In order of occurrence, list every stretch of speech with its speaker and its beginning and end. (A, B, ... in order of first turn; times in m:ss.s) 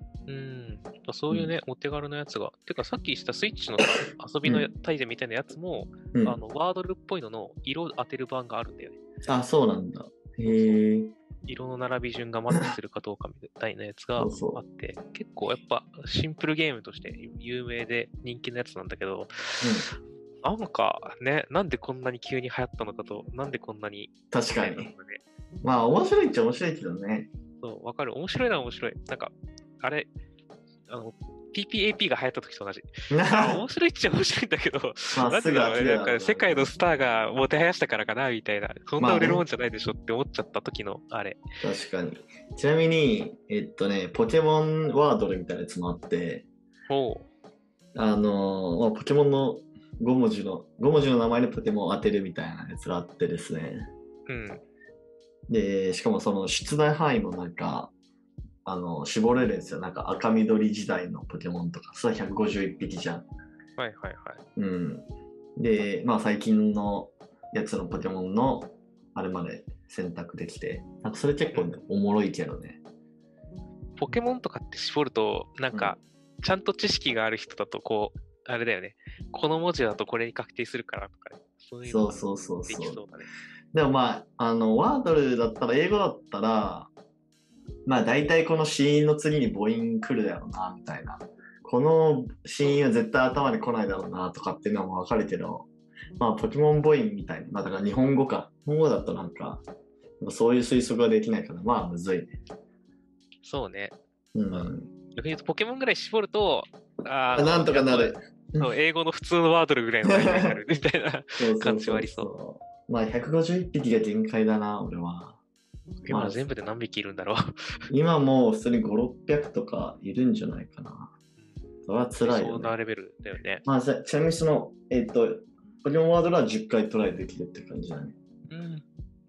0:00.3-0:09.0 A
0:04.4-0:04.7 B
0:06.1-0:06.4 B
0:09.2-0:11.1 B
0:10.4-0:10.8 A
0:11.5-0:19.7 A
0:14.2-0:14.6 B
0:19.6-0:19.9 B
0:20.4-0:25.2 A
0:24.3-0:24.9 B
0:25.6-0:27.3 B
0:27.6-0:30.1 A
0:30.9-0:41.4 A
0:33.1-0:33.6 B
0:35.1-0:36.7 B
0:39.0-0:39.4 B
0:41.6-0:46.5 B
0:46.9-0:47.3 A
0:47.9-0:53.9 B
0:54.3-0:54.6 A
0:55.5-0:57.9 B
0:58.6-1:03.3 B
1:03.8-1:04.4 A
1:04.6-1:12.8 B
1:11.5-1:11.8 A
1:14.0-1:23.3 A
1:15.7-1:16.0 B
1:21.8-1:23.0 B
1:23.7-1:26.9 B
1:27.8-1:35.7 B
1:36.2-1:39.6 B
1:40.2-1:42.4 B
1:43.4-1:44.0 A
1:44.3-1:44.9 B
1:44.5-1:52.3 A
1:47.3-1:48.7 B
1:50.0-1:50.6 B
1:51.4-1:55.4 B
1:56.0-1:56.4 B
1:56.1-1:57.8 A
1:57.9-2:01.1 B
2:01.8-2:02.7 B
2:02.2-2:03.6 A
2:03.6-2:08.1 B
2:08.5-2:08.8 A